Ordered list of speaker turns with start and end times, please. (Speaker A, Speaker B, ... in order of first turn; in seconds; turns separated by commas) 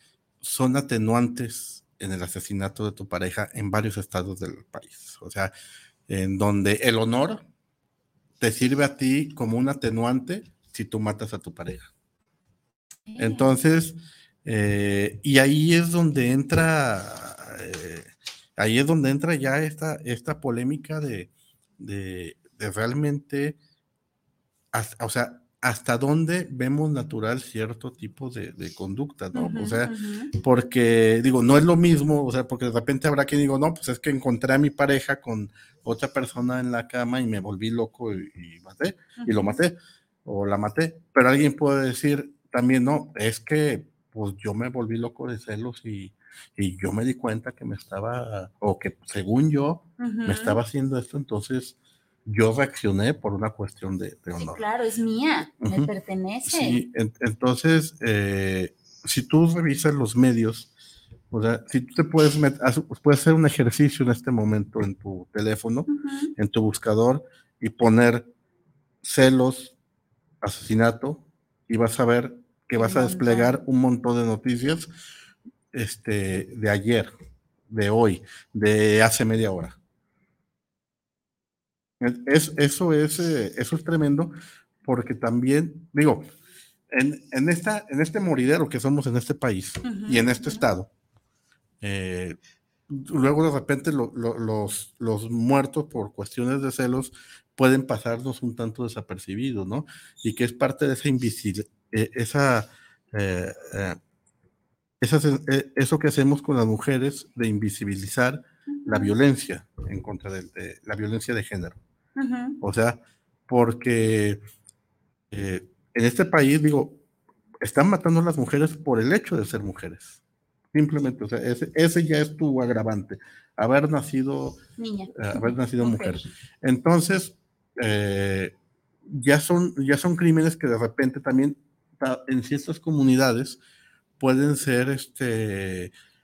Speaker A: 0.4-5.5, Speaker A: 6.1-7.4, Speaker A: 8.4-11.9, Speaker B: 13.1-13.6, Speaker A: 13.2-23.6, Speaker A: 24.7-51.8, Speaker B: 29.3-30.3, Speaker B: 39.2-39.6, Speaker B: 50.0-50.6, Speaker A: 52.3-54.6, Speaker B: 54.3-56.8, Speaker A: 55.6-55.9, Speaker A: 56.5-60.7, Speaker A: 61.3-68.3, Speaker B: 65.9-66.3, Speaker A: 69.0-69.7, Speaker A: 70.4-74.9, Speaker B: 72.8-73.6, Speaker A: 75.7-77.1, Speaker A: 77.7-79.8, Speaker A: 82.0-84.3, Speaker A: 84.8-86.3, Speaker A: 86.9-90.9, Speaker B: 89.8-90.7, Speaker A: 91.8-92.4, Speaker A: 92.9-104.0, Speaker A: 105.0-111.8, Speaker B: 108.7-109.2, Speaker B: 112.2-112.6, Speaker A: 112.6-114.4, Speaker A: 115.3-117.0, Speaker A: 117.6-120.2, Speaker A: 120.7-124.6, Speaker B: 124.8-126.3, Speaker A: 125.2-128.5, Speaker A: 129.1-133.6, Speaker A: 134.2-135.9